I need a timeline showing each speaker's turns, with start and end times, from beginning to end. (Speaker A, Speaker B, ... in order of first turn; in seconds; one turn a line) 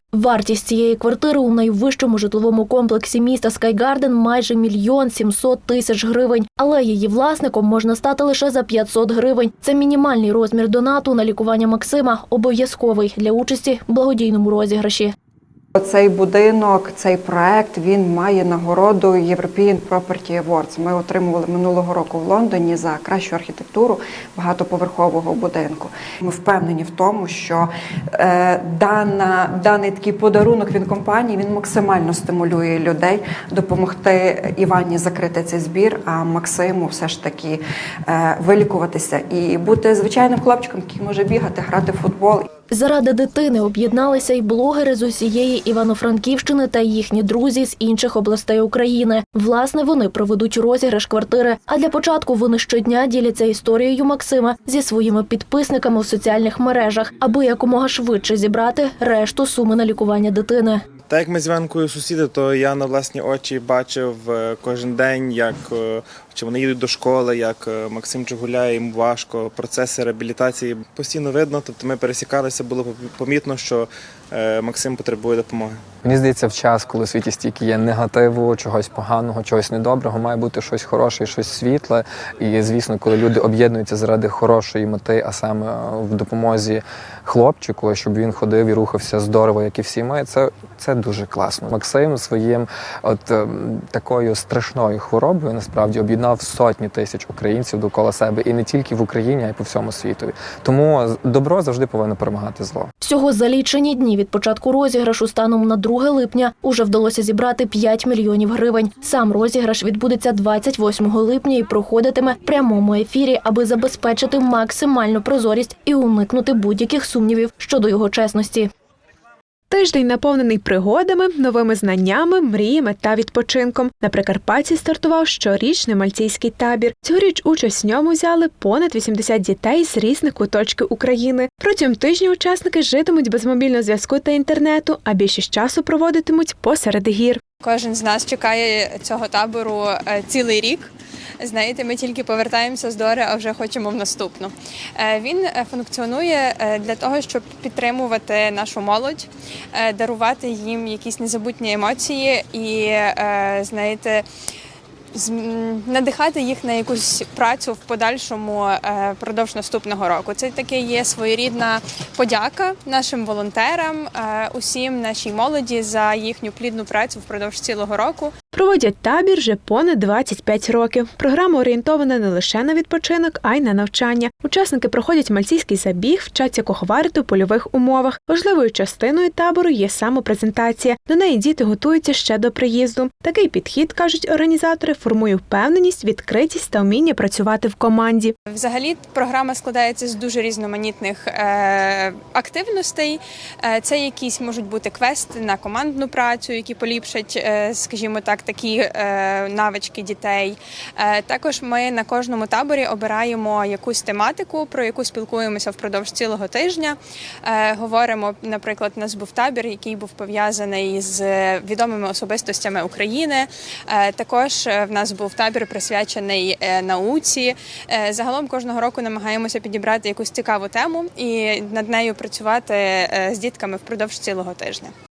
Speaker A: 0.1-15.1
Speaker B: 15.8-42.5
Speaker A: 42.7-60.8
Speaker C: 61.2-73.8
Speaker C: 74.4-75.3
Speaker D: 76.0-102.9
Speaker A: 103.0-118.7
Speaker E: 119.7-137.4
Speaker F: 137.6-154.2
Speaker F: 155.1-168.3
Speaker E: 168.5-188.3
Speaker F: 188.5-224.9